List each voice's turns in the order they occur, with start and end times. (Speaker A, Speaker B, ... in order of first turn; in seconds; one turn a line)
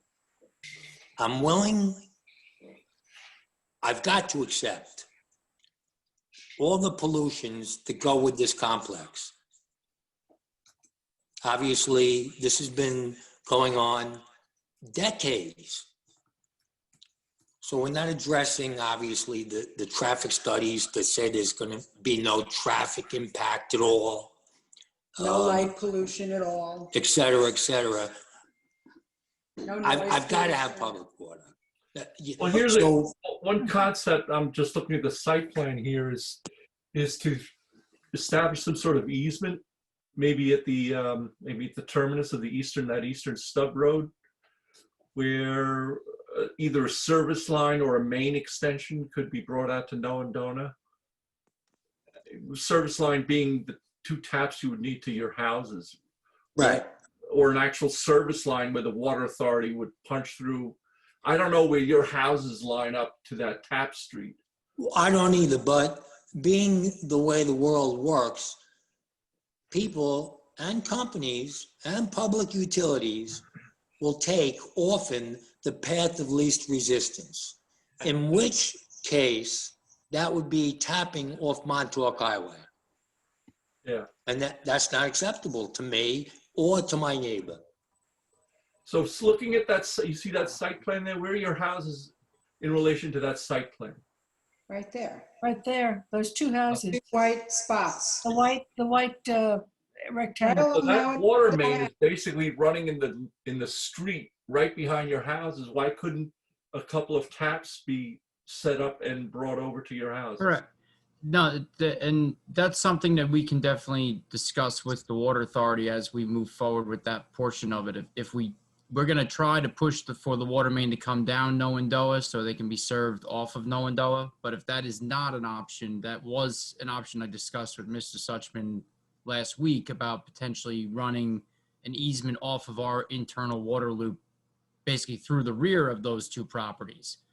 Speaker A: 1.2-2.0
Speaker A: 3.8-5.1
Speaker A: 6.6-9.3
Speaker A: 11.4-14.2
Speaker A: 14.9-15.9
Speaker A: 17.6-24.4
Speaker A: 25.2-25.7
Speaker B: 25.2-26.9
Speaker A: 26.9-28.1
Speaker B: 29.6-31.0
Speaker A: 29.8-33.1
Speaker C: 32.4-36.4
Speaker C: 36.9-37.5
Speaker C: 38.1-39.6
Speaker C: 40.2-44.1
Speaker C: 45.1-50.8
Speaker C: 52.3-56.0
Speaker A: 56.6-56.9
Speaker C: 56.6-64.4
Speaker A: 64.8-68.6
Speaker A: 69.7-73.4
Speaker A: 74.0-82.7
Speaker A: 84.3-87.6
Speaker C: 88.9-94.0
Speaker B: 94.7-95.3
Speaker D: 95.4-97.0
Speaker B: 96.9-98.3
Speaker D: 98.2-100.7
Speaker B: 100.4-101.9
Speaker C: 100.8-110.5
Speaker E: 110.4-110.7
Speaker E: 111.2-134.2
Speaker E: 134.9-137.2